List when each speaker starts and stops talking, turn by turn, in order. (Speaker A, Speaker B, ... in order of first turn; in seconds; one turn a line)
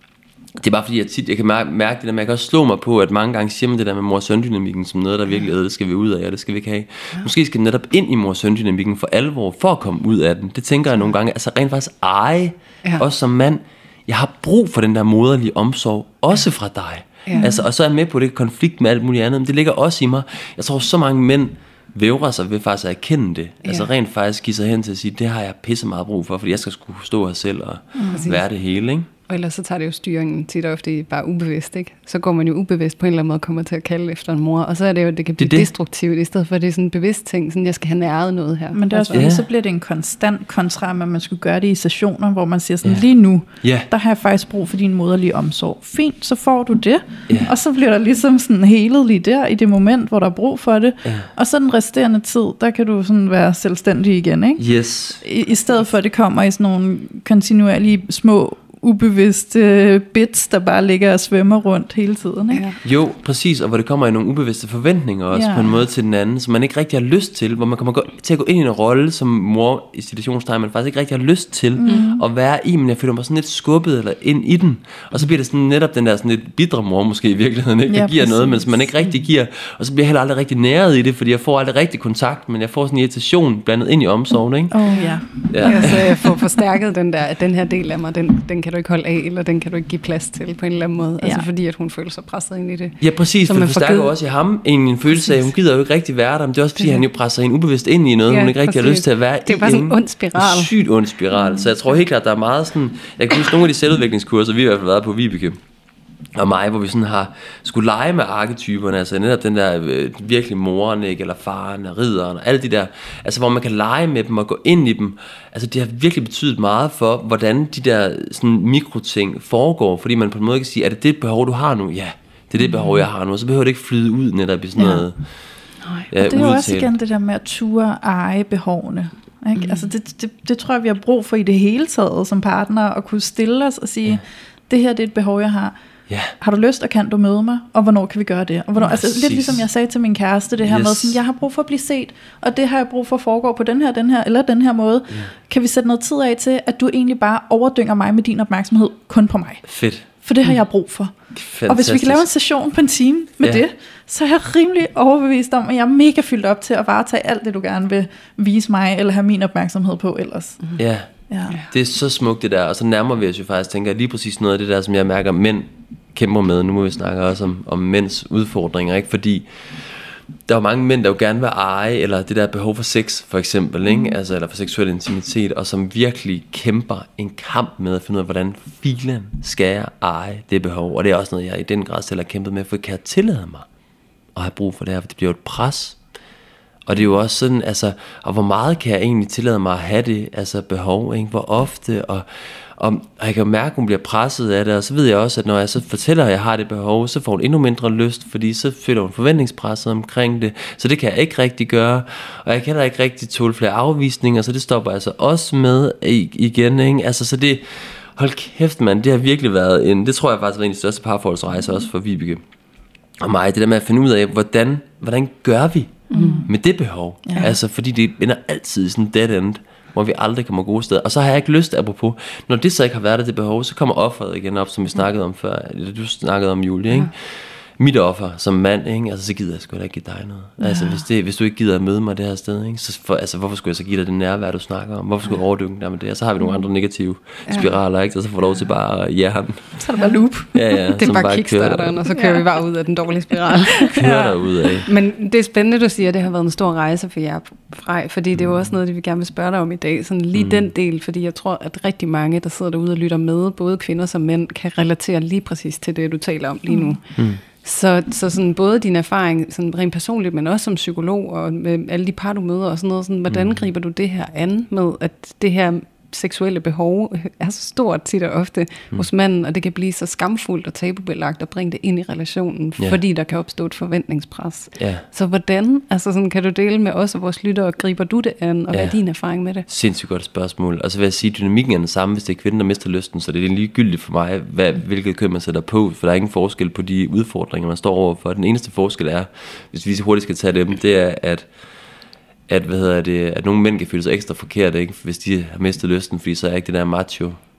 Speaker A: 0.6-29.1
Speaker B: 17.3-17.6
Speaker C: 27.9-28.3
Speaker B: 28.1-28.4
Speaker B: 29.3-39.3
Speaker A: 35.4-35.7
Speaker C: 38.7-54.6
Speaker A: 39.1-39.5
Speaker A: 43.6-43.9
Speaker A: 47.3-47.5
Speaker A: 54.6-55.2
Speaker C: 55.2-62.7
Speaker B: 62.5-62.8
Speaker A: 62.8-84.8
Speaker C: 65.3-65.8
Speaker C: 71.8-72.2
Speaker C: 77.9-78.9
Speaker C: 84.7-86.5
Speaker B: 84.9-94.1
Speaker A: 85.5-86.1
Speaker C: 91.2-91.5
Speaker A: 93.0-105.6
Speaker B: 98.3-100.7
Speaker A: 106.3-125.2
Speaker B: 122.7-123.0
Speaker C: 124.8-125.0
Speaker B: 125.8-126.1
Speaker A: 126.1-126.9
Speaker C: 126.2-135.8
Speaker B: 129.6-129.9
Speaker A: 136.1-136.3
Speaker C: 136.4-160.6
Speaker A: 138.8-139.7
Speaker A: 140.7-141.2
Speaker A: 149.7-150.1
Speaker A: 151.3-152.3
Speaker A: 160.8-183.7
Speaker C: 161.3-161.6
Speaker A: 184.3-186.0
Speaker A: 186.9-192.3
Speaker A: 192.8-212.4
Speaker A: 213.2-239.8
Speaker B: 216.1-216.4
Speaker C: 216.1-216.5
Speaker C: 217.3-217.6
Speaker C: 230.6-230.9
Speaker B: 237.5-237.7
Speaker C: 239.8-240.8
Speaker A: 240.5-242.0
Speaker B: 240.8-244.3
Speaker C: 242.1-242.4
Speaker A: 243.9-244.9
Speaker B: 244.8-279.7
Speaker A: 250.3-250.7
Speaker C: 256.7-257.0
Speaker A: 257.2-257.4
Speaker A: 263.3-263.6
Speaker A: 274.8-275.0
Speaker A: 278.7-279.0
Speaker A: 279.7-291.5
Speaker A: 292.5-297.4